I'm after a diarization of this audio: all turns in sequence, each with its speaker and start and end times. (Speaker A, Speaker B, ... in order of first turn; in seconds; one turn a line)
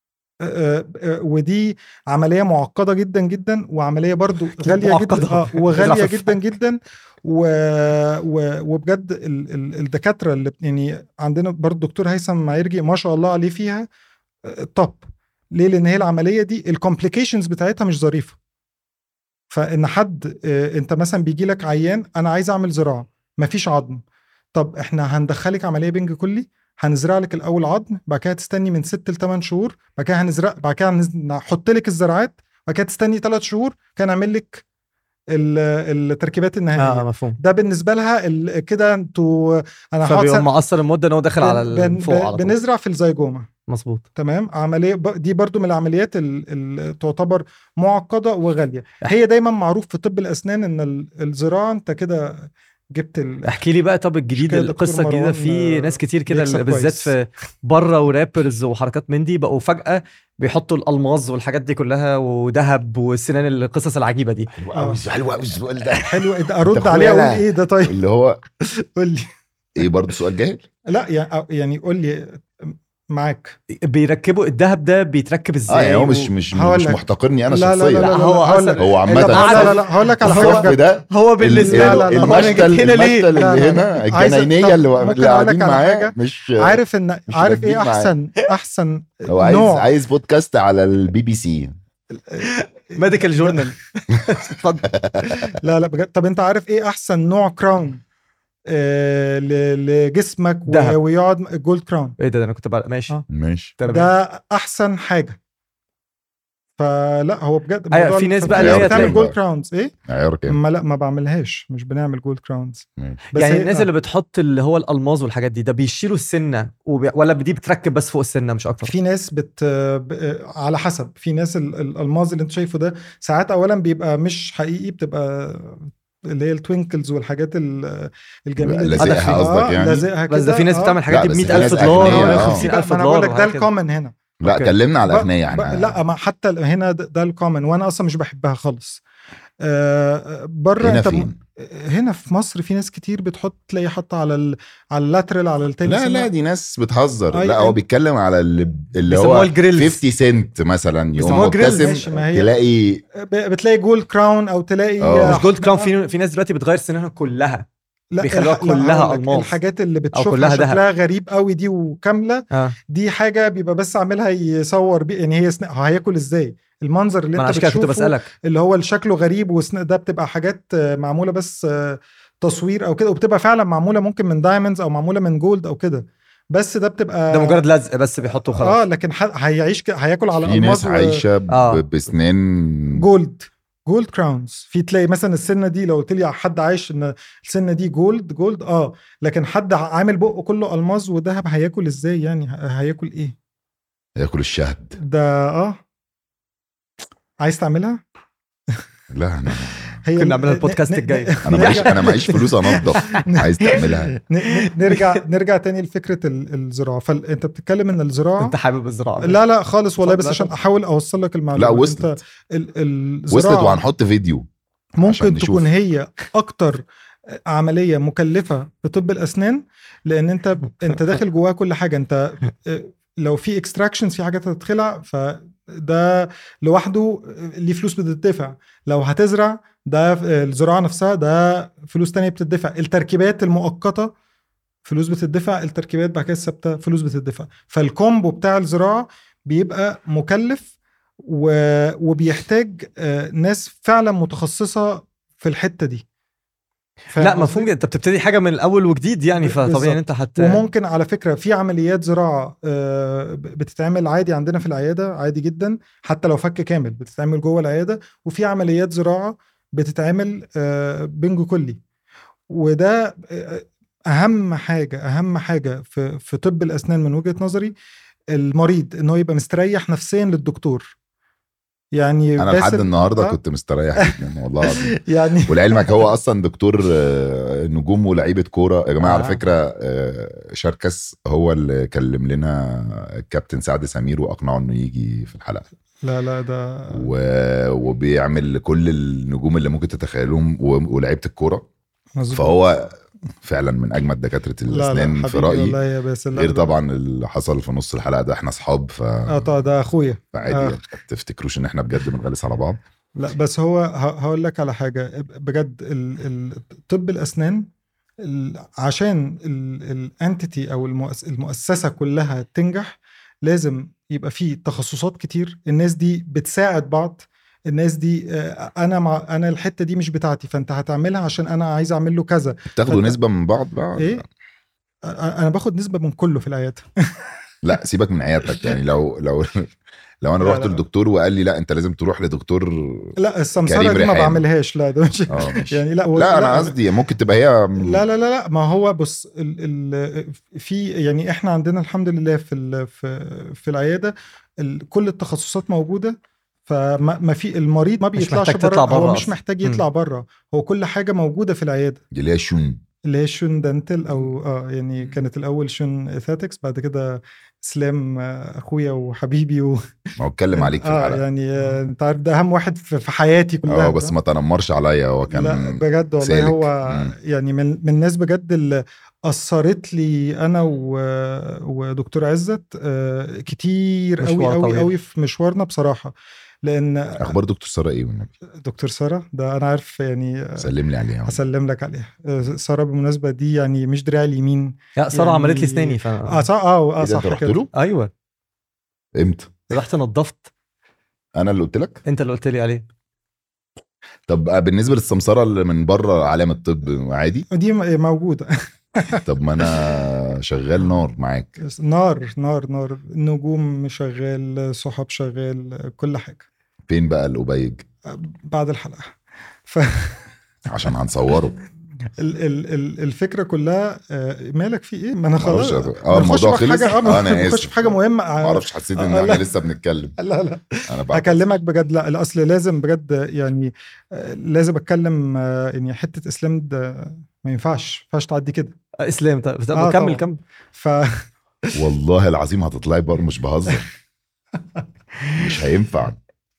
Speaker A: 0.4-13.9
Speaker B: 4.6-6.4
Speaker A: 14.4-18.4
Speaker A: 19.5-24.0
Speaker A: 24.5-34.6
Speaker A: 35.3-40.5
Speaker B: 36.8-37.4
Speaker B: 40.1-42.5
Speaker A: 41.4-43.5
Speaker B: 43.7-44.0
Speaker A: 44.2-53.6
Speaker B: 53.4-64.5
Speaker A: 54.3-57.1
Speaker C: 64.6-68.4
Speaker A: 64.8-65.0
Speaker A: 66.0-68.0
Speaker A: 68.6-69.3
Speaker C: 69.8-70.6
Speaker A: 70.9-73.6
Speaker B: 73.8-76.3
Speaker C: 75.7-78.2
Speaker A: 76.5-80.8
Speaker B: 78.0-83.8
Speaker C: 78.8-88.1
Speaker A: 81.5-89.9
Speaker C: 89.3-91.8
Speaker A: 92.2-93.7
Speaker B: 92.4-95.5
Speaker C: 94.9-95.2
Speaker A: 95.6-98.0
Speaker A: 98.7-102.2
Speaker B: 100.7-101.0
Speaker B: 102.2-103.2
Speaker C: 103.3-103.7
Speaker B: 103.8-104.1
Speaker A: 103.8-105.4
Speaker A: 106.8-109.9
Speaker B: 107.9-109.2
Speaker C: 108.5-109.3
Speaker C: 110.1-110.6
Speaker A: 110.5-113.9
Speaker B: 113.3-118.9
Speaker A: 118.8-134.2
Speaker C: 128.6-130.1
Speaker B: 128.9-129.5
Speaker B: 130.3-133.7
Speaker C: 131.1-132.7
Speaker C: 134.4-135.9
Speaker B: 134.5-134.7
Speaker A: 135.1-139.0
Speaker A: 139.6-146.3
Speaker C: 140.8-141.4
Speaker C: 145.8-153.0
Speaker A: 147.3-147.8
Speaker B: 149.1-150.0
Speaker A: 151.2-152.5
Speaker B: 151.2-152.0
Speaker A: 153.1-155.9
Speaker C: 155.0-155.4
Speaker B: 155.2-157.7
Speaker A: 158.1-177.6
Speaker B: 158.2-159.5
Speaker B: 160.1-160.8
Speaker B: 167.4-168.3
Speaker B: 177.3-178.8
Speaker A: 178.3-181.2
Speaker C: 180.4-183.1
Speaker B: 181.5-181.8
Speaker A: 182.9-193.4
Speaker C: 194.2-195.0
Speaker A: 195.0-195.8
Speaker A: 197.4-198.0
Speaker C: 199.1-200.0
Speaker A: 200.0-208.6
Speaker B: 200.2-203.8
Speaker C: 201.4-204.2
Speaker B: 204.5-205.2
Speaker B: 208.4-209.4
Speaker A: 209.2-213.8
Speaker B: 210.0-210.5
Speaker C: 211.6-212.2
Speaker C: 213.3-214.5
Speaker A: 215.0-234.1
Speaker C: 215.0-215.7
Speaker A: 234.8-240.7
Speaker A: 241.2-246.1
Speaker A: 247.1-247.7
Speaker B: 247.2-250.6
Speaker A: 249.4-261.8
Speaker A: 262.5-267.8
Speaker A: 268.3-270.9
Speaker A: 271.9-273.4
Speaker C: 272.4-285.6
Speaker A: 274.0-275.9
Speaker B: 279.0-279.4
Speaker A: 286.0-287.1
Speaker C: 286.9-291.6
Speaker A: 292.2-292.6
Speaker C: 292.3-295.8
Speaker A: 294.7-296.7
Speaker C: 296.4-299.6
Speaker A: 299.3-300.8
Speaker C: 300.3-302.8
Speaker A: 303.2-307.7
Speaker A: 308.2-323.2
Speaker C: 322.7-324.2
Speaker A: 324.0-324.2
Speaker A: 325.0-326.9
Speaker C: 327.6-334.4
Speaker A: 330.4-330.8
Speaker A: 333.2-336.8
Speaker C: 335.3-338.0
Speaker A: 337.8-352.0
Speaker B: 348.2-349.8
Speaker C: 352.1-352.8
Speaker A: 353.1-359.8
Speaker C: 360.2-361.2
Speaker A: 360.6-364.1
Speaker C: 363.7-367.1
Speaker A: 365.3-377.3
Speaker B: 374.2-374.9
Speaker C: 377.2-378.3
Speaker A: 378.6-380.7
Speaker C: 380.6-381.4
Speaker A: 381.2-387.7
Speaker B: 385.0-386.5
Speaker C: 387.0-387.7
Speaker B: 387.7-388.1
Speaker C: 389.1-389.6
Speaker B: 389.7-390.5
Speaker C: 391.4-392.0
Speaker B: 392.1-392.8
Speaker C: 394.3-397.5
Speaker A: 397.5-399.8
Speaker C: 399.2-401.6
Speaker A: 401.6-406.4
Speaker C: 406.9-407.9
Speaker A: 408.1-409.1
Speaker A: 409.7-410.2
Speaker C: 410.7-411.6
Speaker A: 412.2-419.5
Speaker C: 415.4-420.2
Speaker A: 420.2-428.8
Speaker C: 420.9-421.5
Speaker B: 429.0-430.4
Speaker A: 429.7-431.7
Speaker C: 431.7-433.9
Speaker C: 435.3-436.2